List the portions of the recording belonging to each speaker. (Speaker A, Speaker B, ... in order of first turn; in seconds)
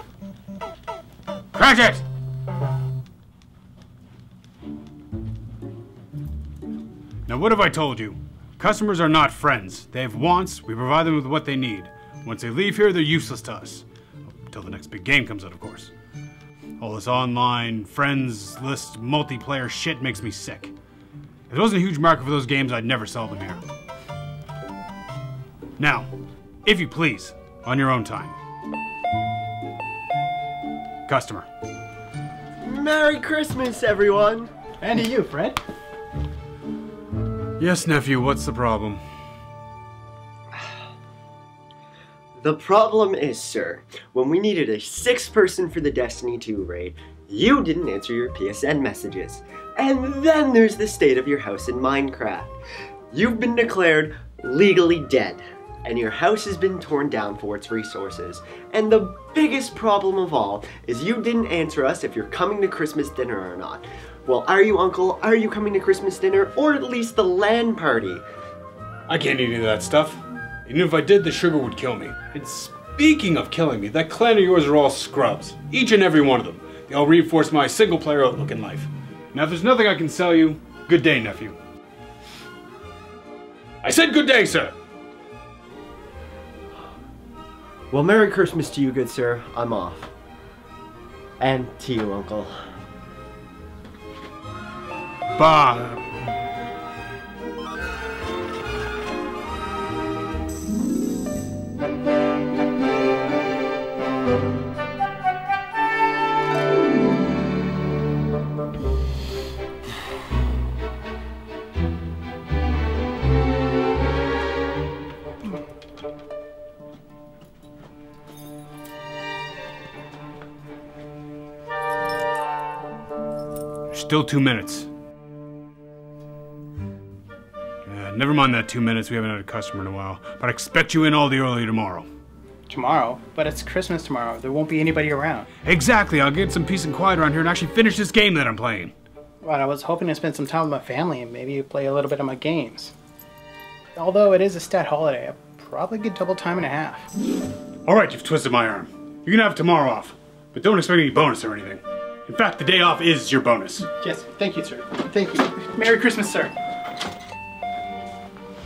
Speaker A: 1.5-2.0, 7.3-15.9, 16.8-20.8, 21.5-23.6, 25.8-26.1, 26.6-28.4, 31.1-31.5, 37.6-39.0, 69.1-81.6, 83.8-84.7, 95.4-96.0, 123.9-124.9, 127.9-132.1, 135.6-138.9, 147.9-153.9
Speaker B: 32.6-34.5, 42.4-52.5, 53.1-68.2, 87.9-90.1, 91.4-92.5
Speaker C: 34.8-35.6, 132.7-135.5, 139.4-142.9, 144.0-147.1, 154.0-156.5